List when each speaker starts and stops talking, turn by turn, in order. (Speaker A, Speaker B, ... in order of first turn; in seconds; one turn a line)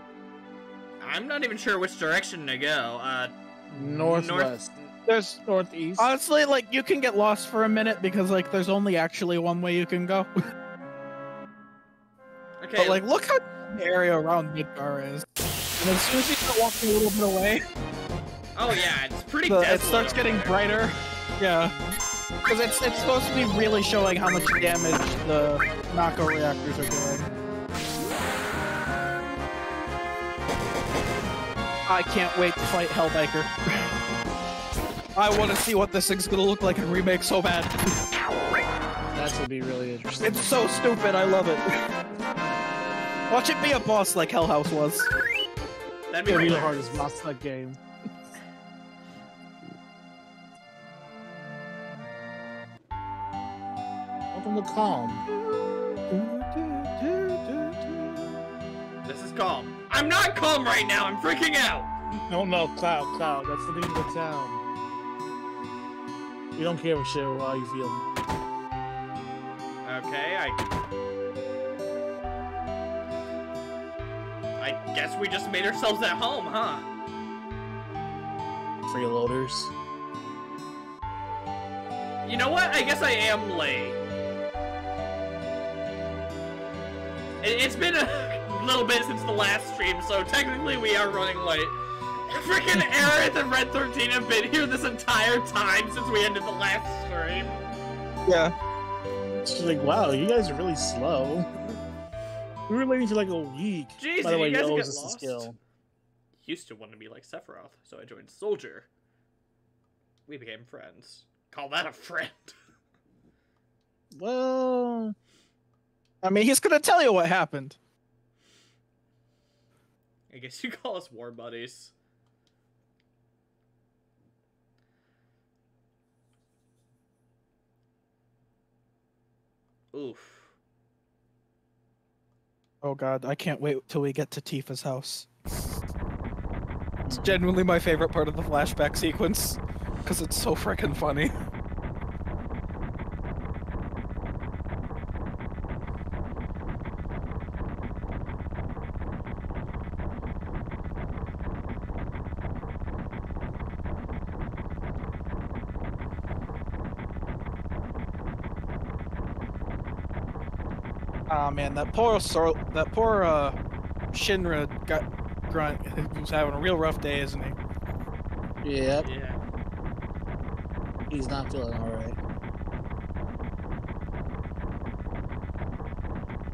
Speaker A: 1.0-4.9
Speaker B: 3.7-4.7
Speaker C: 5.1-5.4
Speaker B: 5.4-6.1
Speaker C: 6.0-10.3
Speaker A: 12.6-13.0
Speaker C: 12.8-15.2
Speaker C: 15.8-17.6
Speaker A: 18.6-20.7
Speaker C: 19.5-21.7
Speaker C: 22.4-27.3
Speaker C: 31.9-33.9
Speaker C: 35.1-37.8
Speaker B: 39.1-40.8
Speaker C: 40.2-41.6
Speaker C: 43.3-45.1
Speaker A: 46.1-47.0
Speaker B: 46.3-47.8
Speaker B: 54.3-55.3
Speaker C: 55.3-58.4
Speaker A: 59.0-61.9
Speaker B: 62.3-64.6
Speaker B: 66.5-68.1
Speaker A: 69.8-70.6
Speaker A: 74.6-76.8
Speaker B: 78.9-79.7
Speaker A: 82.2-84.0
Speaker A: 87.4-91.8
Speaker A: 92.3-97.6
Speaker C: 98.2-98.5
Speaker B: 99.4-101.5
Speaker B: 102.7-105.5
Speaker A: 104.0-105.5
Speaker A: 106.4-108.9
Speaker A: 110.3-112.5
Speaker B: 114.1-115.1
Speaker C: 116.2-117.8
Speaker A: 120.3-121.9
Speaker A: 129.9-130.5
Speaker C: 132.8-135.3
Speaker B: 137.1-137.4
Speaker C: 137.1-141.3
Speaker C: 161.3-163.6
Speaker C: 164.1-167.6
Speaker B: 168.6-169.1
Speaker A: 169.0-169.4
Speaker B: 171.1-172.2